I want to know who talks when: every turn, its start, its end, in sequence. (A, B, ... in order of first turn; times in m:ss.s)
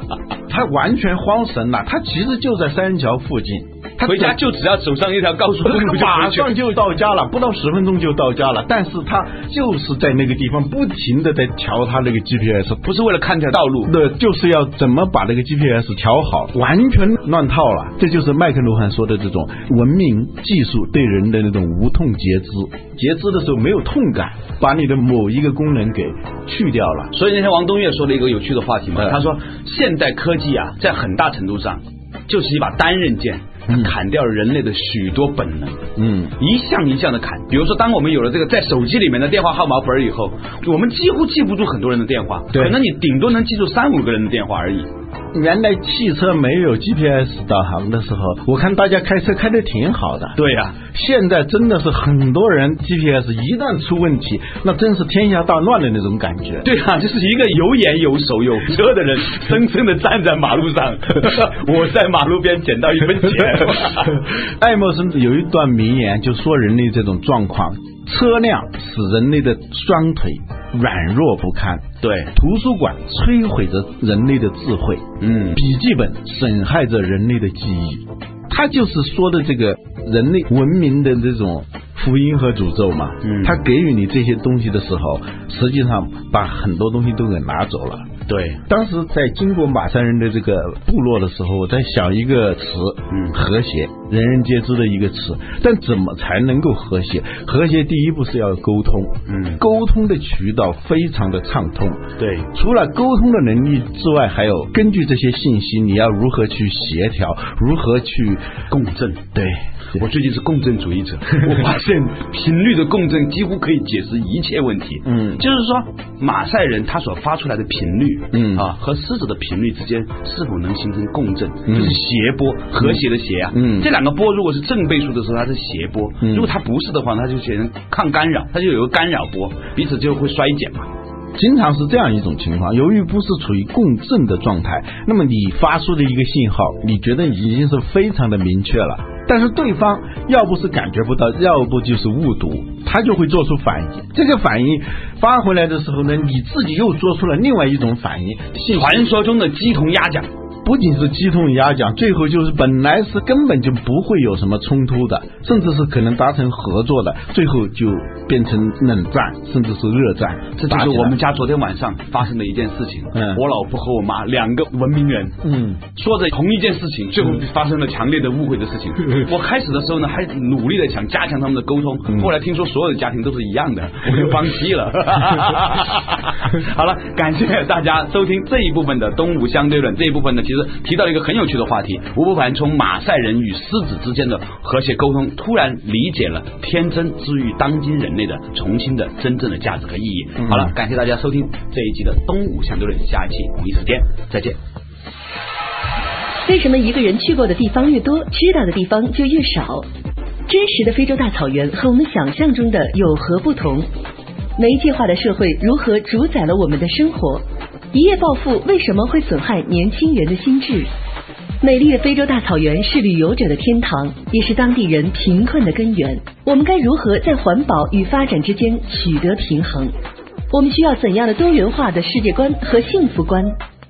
0:00.5-0:04.4 A
0:04.0-0:06.5 B
0:05.6-0:12.8 A
0:12.8-0:13.9 B
0:13.9-0:27.1 A
0:27.1-0:44.9 B
0:29.0-0:29.2 A
0:33.7-0:33.9 A
0:36.0-0:36.3 A
0:42.5-0:42.8 A
0:45.3-0:56.7 A
0:50.4-0:50.8 B
0:56.6-1:04.2 B
1:04.0-1:28.1 A
1:12.0-1:12.3 B
1:15.2-1:15.6 B
1:23.2-1:23.6 B
1:28.3-1:28.6 B
1:28.7-1:48.5 A
1:33.1-1:33.4 B
1:39.3-1:39.6 B
1:42.2-1:42.5 B
1:48.7-1:49.3 B
1:49.3-1:50.0 A
1:49.9-2:10.9 B
1:55.0-1:55.4 A
1:58.3-1:58.7 A
2:01.7-2:02.0 A
2:02.8-2:03.9 A
2:06.2-2:06.5 A
2:11.4-2:29.1 A
2:28.7-2:30.3 B
2:30.6-2:41.2 A
2:40.6-2:45.4 B
2:43.1-2:43.4 A
2:45.4-2:45.8 A
2:46.0-3:14.6 B
3:10.4-3:10.7 A
3:16.4-3:19.9 C
3:20.5-3:23.9 C
3:24.6-3:30.9 C
3:31.6-3:39.9 C
3:40.5-3:43.6 C